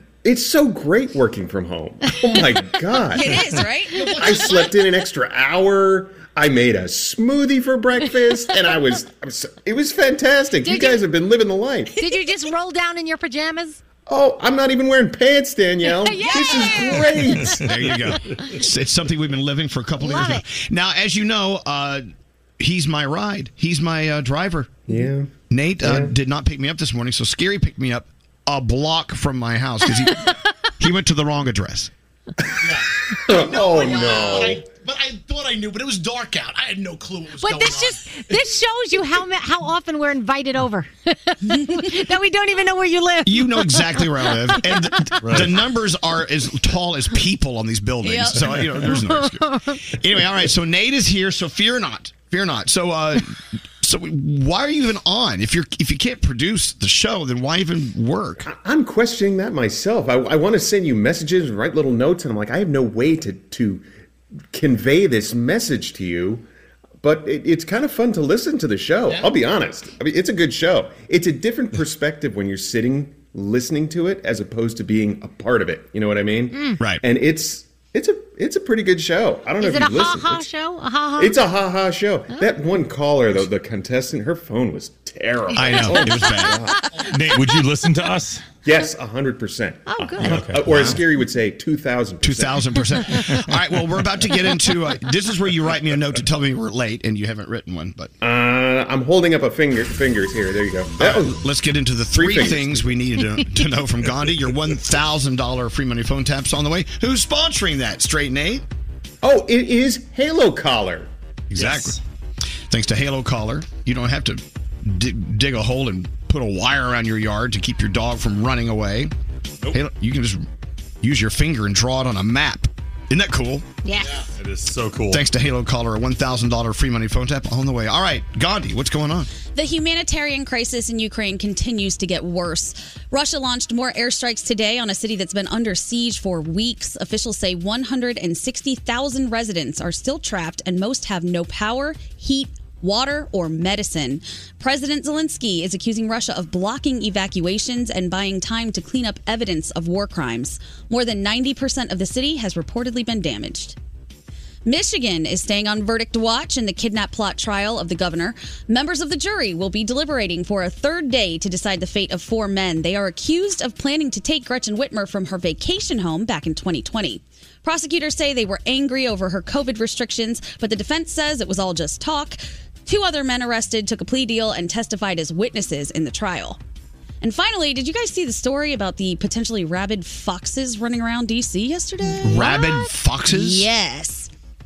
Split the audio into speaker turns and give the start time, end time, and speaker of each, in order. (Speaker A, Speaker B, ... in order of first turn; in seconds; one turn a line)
Speaker A: 0.2-3.4
Speaker B: 3.1-4.2
Speaker C: 3.9-4.8
Speaker A: 4.1-11.9
Speaker D: 10.6-11.0
Speaker D: 12.0-13.8
Speaker A: 14.1-17.6
Speaker D: 15.8-18.0
Speaker E: 17.6-22.1
Speaker D: 20.0-20.4
Speaker E: 22.6-24.9
Speaker A: 24.9-25.3
Speaker E: 25.5-31.9
Speaker A: 25.8-26.1
Speaker C: 32.6-38.0
Speaker A: 33.3-34.7
Speaker D: 37.4-45.0
Speaker E: 43.2-58.5
Speaker F: 45.2-45.5
Speaker B: 48.0-48.6
Speaker D: 48.9-49.8
Speaker A: 58.4-63.9
Speaker A: 64.5-66.5
Speaker A: 67.0-80.5
Speaker C: 69.1-69.4
Speaker D: 76.5-76.8
Speaker E: 76.8-77.0
Speaker D: 79.6-81.5
Speaker A: 81.2-86.8
Speaker E: 85.5-86.7
Speaker F: 87.0-88.5
Speaker A: 88.6-92.6
Speaker D: 89.9-90.4
Speaker F: 90.2-91.0
Speaker E: 90.4-91.0
Speaker E: 92.2-98.1
Speaker A: 98.2-101.3
Speaker E: 101.0-108.7
Speaker A: 102.1-102.9
Speaker A: 109.2-111.1
Speaker E: 111.5-112.0
Speaker F: 111.6-112.0
Speaker E: 112.7-119.1
Speaker E: 119.7-120.5
Speaker E: 121.0-123.7
Speaker D: 123.8-124.2
Speaker F: 124.4-125.3
Speaker E: 125.1-129.3
Speaker B: 129.6-153.8
Speaker B: 154.7-176.6
Speaker B: 177.2-184.3
Speaker E: 182.2-183.7